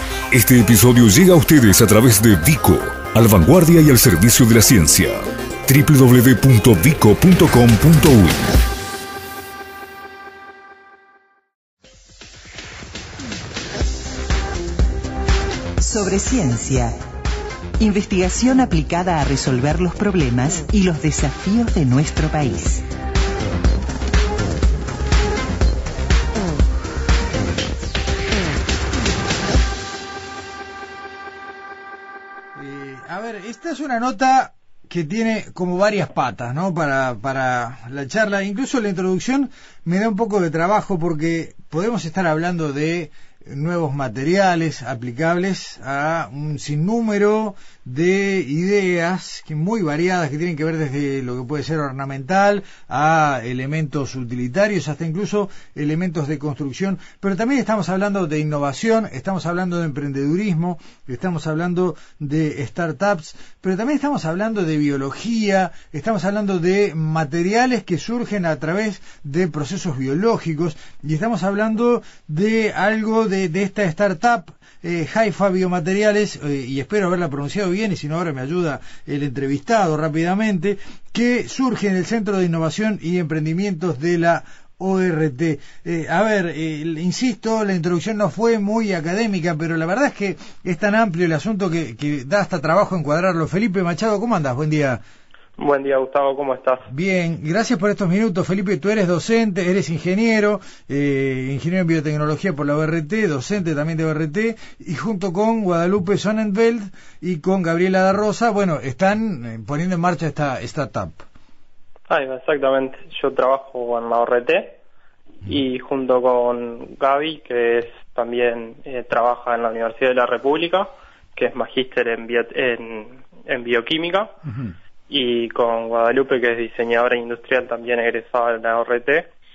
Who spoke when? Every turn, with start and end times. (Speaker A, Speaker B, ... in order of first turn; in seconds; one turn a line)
Speaker A: 0.3-8.5
Speaker B: 15.8-17.0
Speaker B: 17.8-22.8
Speaker C: 32.6-95.0
Speaker D: 95.6-96.9
Speaker C: 96.9-111.2
Speaker D: 112.1-114.8
Speaker D: 115.4-124.4
Speaker C: 124.5-124.8
Speaker D: 125.1-129.3